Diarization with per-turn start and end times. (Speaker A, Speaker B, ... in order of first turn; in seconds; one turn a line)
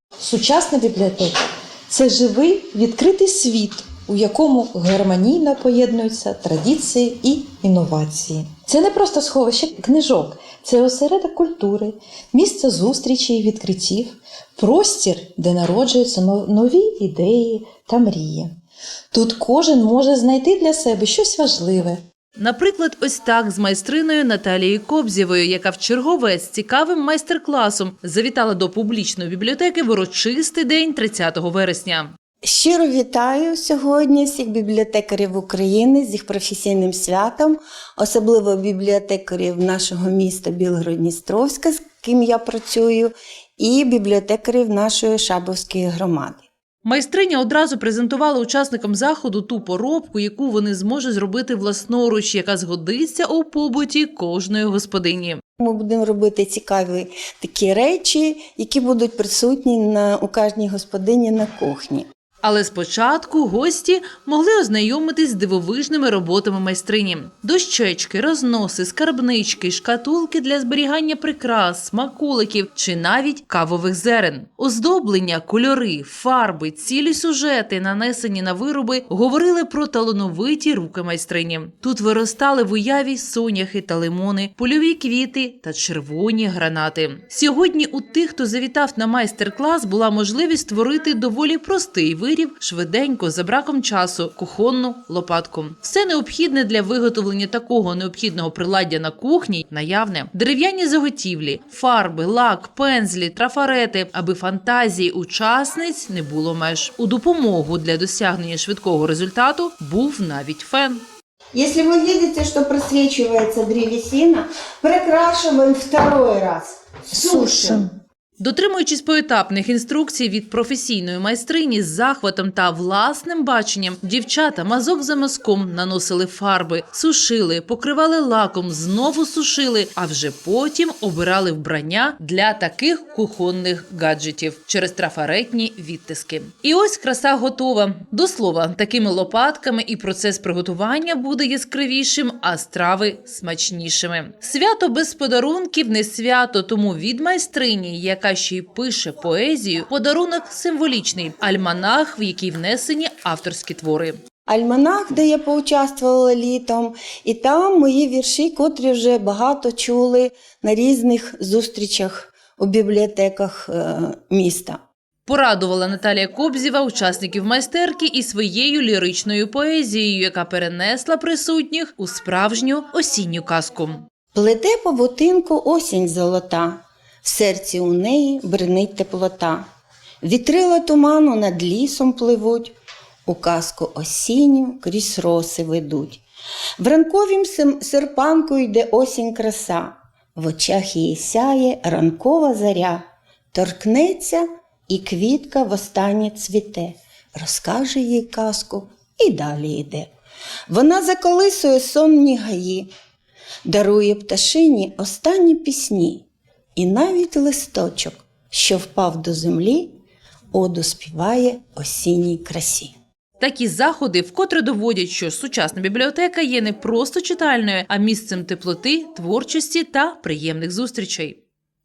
Speaker A: 0.2-1.3
Speaker A: 1.9-18.5
Speaker A: 19.1-22.0
Speaker B: 22.4-32.1
Speaker C: 32.5-46.4
Speaker B: 46.9-55.4
Speaker C: 55.6-62.1
Speaker B: 62.4-111.0
Speaker C: 111.5-117.8
Speaker A: 117.1-117.9
Speaker B: 118.4-154.2
Speaker C: 154.5-164.8
Speaker B: 165.3-174.0
Speaker C: 174.3-179.6
Speaker C: 180.2-182.7
Speaker C: 183.3-186.2
Speaker C: 186.8-200.1
Speaker C: 200.7-202.9
Speaker C: 203.7-206.2
Speaker C: 206.8-209.9
Speaker C: 210.5-212.9
Speaker B: 213.4-221.4